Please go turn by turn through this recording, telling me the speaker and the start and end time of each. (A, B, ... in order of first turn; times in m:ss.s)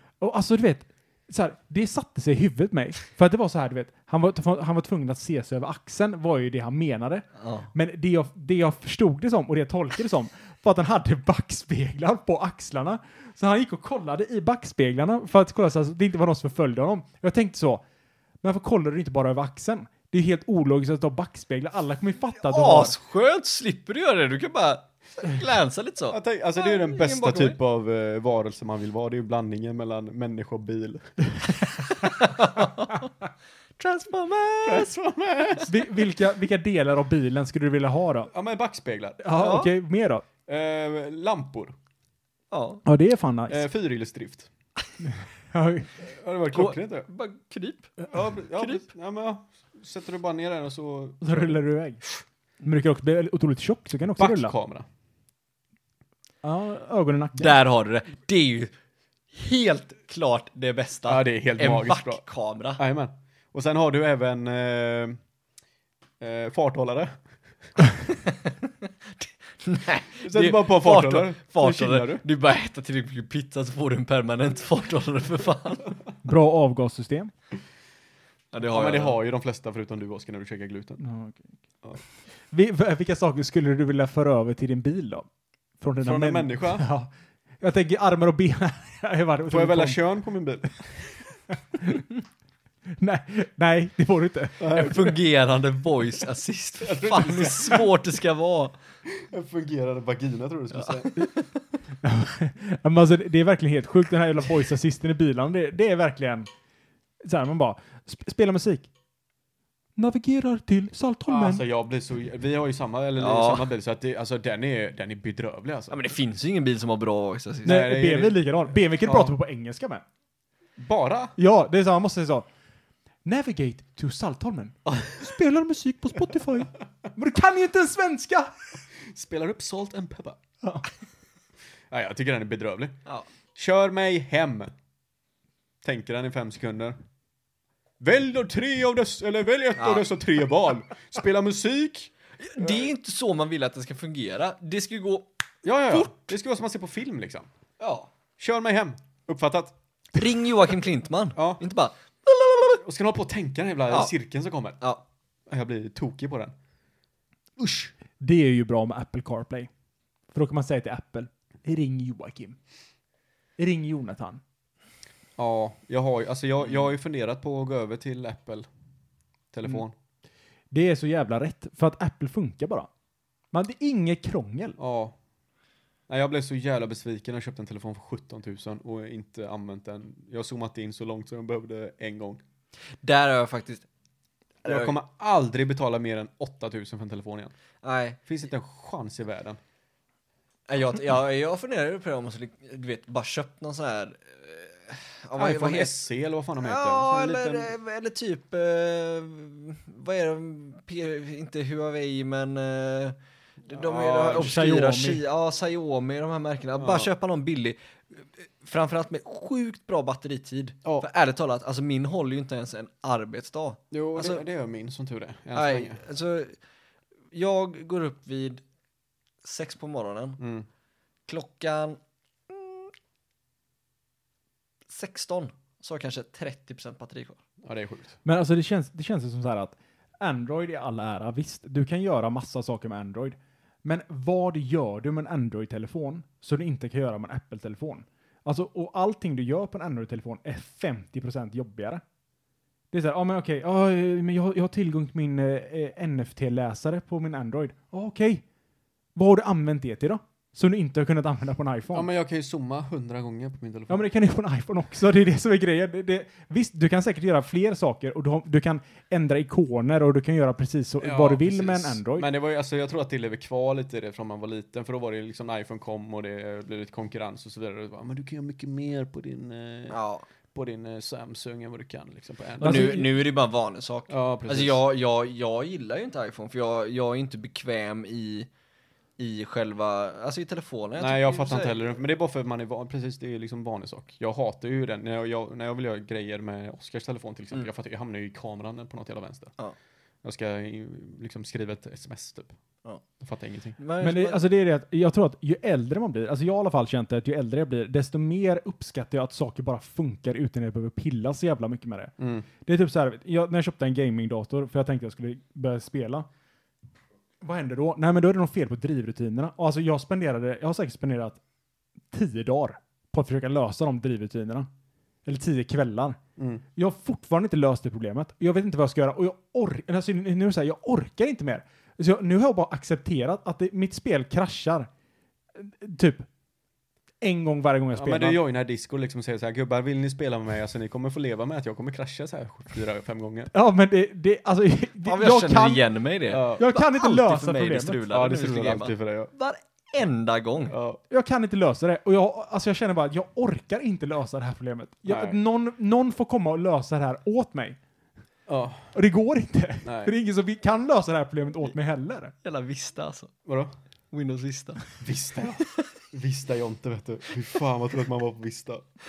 0:00.2-0:17.8 A
0:07.4-0:07.7 B
0:18.4-0:22.9 A
0:22.4-0:27.6 B
0:26.1-0:31.2 C
0:31.9-0:33.1 B
0:33.8-0:34.9 B
0:34.6-0:35.8 C
0:35.6-0:38.3 A
0:38.3-0:39.5 C
0:39.2-0:40.2 A
0:39.4-0:39.7 B
0:40.4-0:41.7 C
0:42.5-0:42.8 B
0:42.8-0:43.6 A
0:43.5-0:44.5 C
0:45.0-0:45.9 A
0:46.0-0:47.1 C
0:46.5-0:48.0 B
0:48.1-0:51.6 C
0:48.5-0:48.8 B
0:51.2-0:52.0 A
0:52.6-0:54.5 A
0:54.1-0:54.8 C
0:56.4-0:57.6 A
0:57.4-0:58.7 B
0:59.3-1:02.8 B
1:01.1-1:02.2 C
1:02.8-1:05.2 C
1:06.2-1:07.2 C
1:08.1-1:15.9 B
1:10.2-1:12.2 C
1:16.2-1:17.3 A
1:18.5-1:19.2 B
1:18.7-1:21.0 C
1:21.0-1:21.5 A
1:22.5-1:25.3 A
1:25.8-1:30.0 A
1:26.0-1:26.9 C
1:29.5-1:31.3 C
1:31.8-1:32.0 A
1:33.0-1:34.5 A
1:34.6-1:35.2 C
1:34.7-1:38.7 B
1:36.8-1:37.8 C
1:39.1-1:41.3 C
1:40.7-1:41.5 B
1:42.0-1:46.5 A
1:47.2-1:48.9 A
1:50.0-1:51.6 A
1:51.3-1:56.1 C
1:53.2-1:53.7 B
1:55.9-1:57.8 B
1:57.6-1:58.4 C
1:57.6-2:00.0 A
1:59.0-1:59.4 C
2:00.8-2:01.4 C
2:01.4-2:02.5 A
2:03.2-2:08.5 A
2:09.1-2:10.4 C
2:10.6-2:10.9 A
2:11.9-2:13.0 C
2:13.5-2:14.7 C
2:15.8-2:17.0 C
2:18.0-2:22.9 C
2:19.8-2:20.0 B
2:22.4-2:25.3 B
2:25.6-2:27.5 C
2:27.8-2:28.1 B
2:28.4-2:29.8 C
2:30.1-2:32.8 B
2:31.4-2:31.6 C
2:32.8-2:34.8 C
2:33.9-2:34.1 B
2:35.5-2:36.5 C
2:37.6-2:39.7 A
2:40.3-2:42.6 A
2:43.6-2:44.4 A
2:45.4-2:48.7 C
2:49.5-2:49.9 C
2:50.7-2:52.9 A
2:53.5-2:54.8 A
2:54.8-2:55.1 C
2:56.1-3:02.4 C
3:03.0-3:03.8 B
3:04.6-3:05.0 B
3:04.6-3:07.5 C
3:07.8-3:08.2 B
3:08.2-3:09.6 C
3:10.7-3:16.0 B
3:15.4-3:17.7 C
3:16.6-3:23.2 B
3:23.7-3:34.4 B
3:23.7-3:24.6 C
3:24.3-3:25.2 A
3:26.8-3:27.1 C
3:33.9-3:36.0 C
3:35.5-3:36.6 B
3:37.3-3:38.6 B
3:39.4-3:40.4 B
3:40.4-3:40.7 C
3:41.3-3:42.9 B
3:44.9-3:47.4 B
3:47.6-3:48.2 C
3:48.2-4:02.0 A
4:02.9-4:08.4 A
4:09.1-4:12.1 A
4:11.9-4:14.0 C
4:13.9-4:22.3 A
4:21.0-4:30.0 C
4:29.9-4:30.2 B
4:30.5-4:33.0 C
4:32.6-4:33.1 A
4:32.6-4:38.5 B
4:34.1-4:34.8 C
4:39.2-4:41.9 B
4:41.0-4:49.5 C
4:50.2-4:52.5 C
4:53.2-4:53.8 C
4:53.8-4:54.4 B
4:54.0-5:06.3 A
5:02.2-5:02.5 C
5:07.4-5:11.4 A
5:12.1-5:14.7 A
5:15.2-5:16.2 A
5:16.4-5:16.6 C
5:16.8-5:24.9 A
5:25.5-5:26.3 A
5:27.2-5:28.4 A
5:28.0-5:33.5 C
5:33.5-5:35.9 A
5:35.0-5:40.7 B
5:36.3-5:36.7 C
5:36.6-5:38.0 A
5:38.1-5:39.3 C
5:40.7-5:41.0 C
5:41.1-5:47.8 A
5:45.0-5:45.4 C
5:48.5-5:49.0 C
5:48.9-5:52.3 A
5:49.8-5:50.1 C
5:52.4-5:53.3 B
5:53.4-5:53.7 C
5:54.1-5:54.9 B
5:55.0-5:58.8 C